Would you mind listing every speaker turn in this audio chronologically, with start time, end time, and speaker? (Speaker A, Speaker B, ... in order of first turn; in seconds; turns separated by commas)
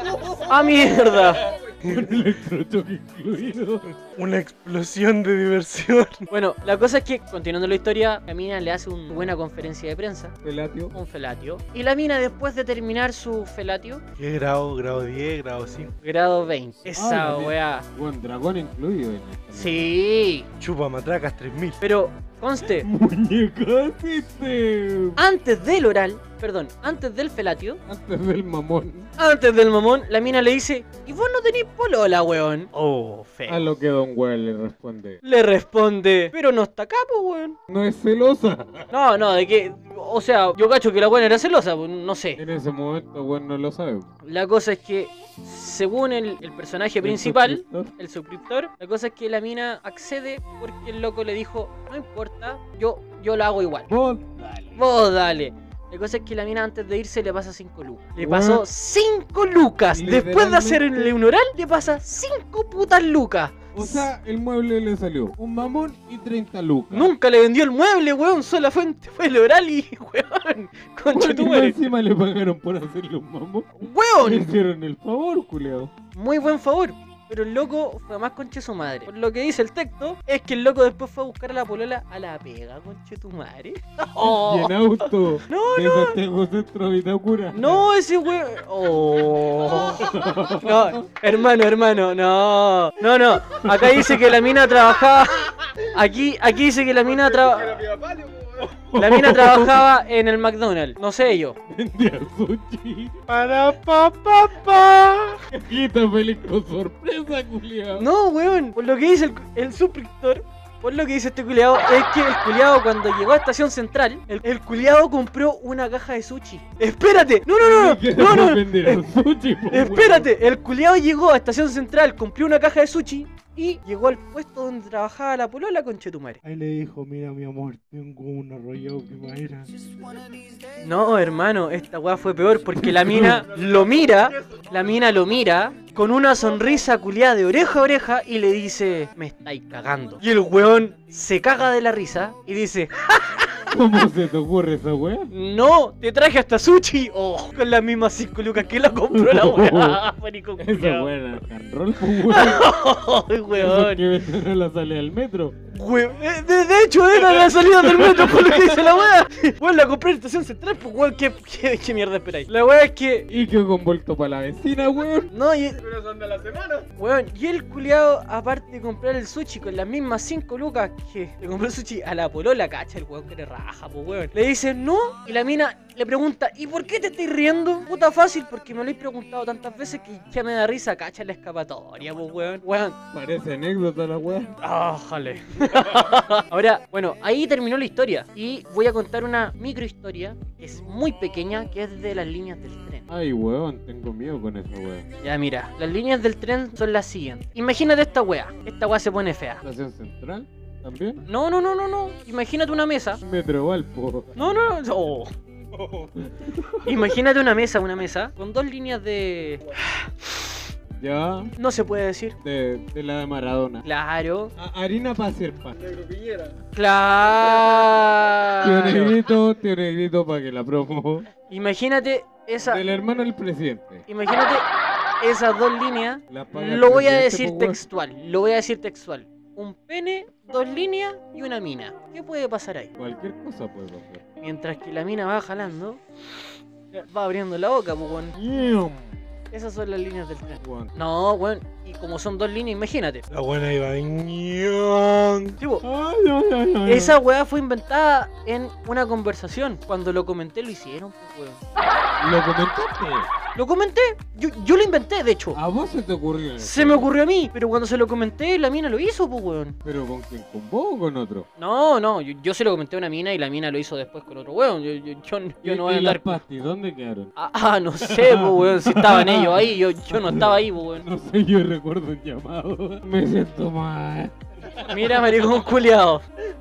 Speaker A: 0.2-1.5, Speaker B: 1.8-2.2, Speaker C: 1.8-3.9, Speaker B: 4.1-6.3, Speaker A: 6.3-10.3, Speaker C: 10.4-10.9, Speaker A: 10.9-14.0, Speaker B: 14.2-15.9, Speaker A: 16.0-17.8, Speaker C: 16.9-19.9, Speaker A: 19.5-20.5, Speaker B: 20.6-21.8, Speaker A: 21.8-22.9, Speaker C: 22.6-25.2, Speaker A: 25.2-27.8, Speaker C: 27.9-29.1, Speaker A: 29.2-33.6, Speaker C: 33.5-35.2, Speaker A: 35.2-37.6, Speaker C: 37.7-38.9, Speaker A: 38.9-42.4, Speaker C: 42.4-44.1, Speaker A: 44.2-53.9, Speaker C: 47.0-47.9, Speaker C: 53.9-54.8, Speaker A: 54.8-64.1, Speaker C: 58.2-58.7, Speaker C: 59.9-61.1, Speaker C: 63.7-67.1, Speaker A: 66.9-71.8, Speaker C: 71.1-75.9, Speaker A: 73.8-74.5, Speaker A: 76.1-86.2, Speaker C: 84.2-87.8, Speaker A: 87.5-97.9, Speaker C: 89.9-91.0, Speaker C: 93.6-94.5, Speaker C: 98.6-99.8, Speaker A: 98.9-101.6, Speaker C: 101.7-103.1, Speaker B: 103.3-105.4, Speaker C: 105.5-108.0, Speaker A: 107.9-119.0, Speaker C: 117.6-120.3, Speaker A: 119.7-126.4, Speaker B: 126.4-129.7, Speaker A: 130.8-143.5, Speaker C: 132.8-133.4, Speaker C: 143.7-145.3, Speaker A: 145.3-151.1, Speaker C: 148.9-150.0, Speaker C: 150.6-152.7, Speaker A: 152.2-154.1, Speaker C: 153.5-155.6, Speaker A: 155.7-163.3, Speaker C: 157.2-158.9, Speaker C: 163.3-165.3, Speaker A: 165.3-165.9, Speaker A: 166.7-183.0, Speaker C: 183.1-184.6, Speaker A: 184.6-193.1, Speaker C: 193.1-195.1, Speaker A: 195.2-199.6, Speaker C: 199.6-201.2, Speaker A: 201.2-203.2, Speaker C: 203.2-204.3, Speaker A: 204.3-205.3, Speaker C: 205.7-207.1, Speaker A: 206.8-210.6, Speaker C: 211.0-211.5, Speaker A: 211.6-212.3, Speaker C: 212.4-213.8, Speaker A: 213.8-214.5, Speaker C: 214.6-215.8, Speaker A: 216.7-219.2, Speaker C: 218.6-221.3, Speaker A: 221.5-222.8, Speaker C: 222.7-224.0, Speaker A: 224.1-224.7, Speaker A: 225.2-232.9, Speaker C: 226.3-227.8, Speaker C: 233.0-234.2, Speaker A: 234.4-236.0, Speaker A: 236.9-238.3, Speaker C: 238.3-239.1, Speaker A: 239.5-243.2, Speaker C: 240.6-240.9, Speaker B: 243.3-245.6, Speaker A: 245.6-245.8, Speaker C: 245.8-247.2, Speaker A: 246.8-251.6, Speaker C: 252.2-253.3, Speaker A: 253.5-255.6, Speaker C: 255.5-257.1, Speaker A: 256.6-259.8, Speaker C: 259.8-261.5, Speaker A: 261.6-266.4, Speaker C: 265.6-267.3, Speaker A: 267.4-271.1, Speaker C: 268.0-275.2, Speaker A: 274.8-276.3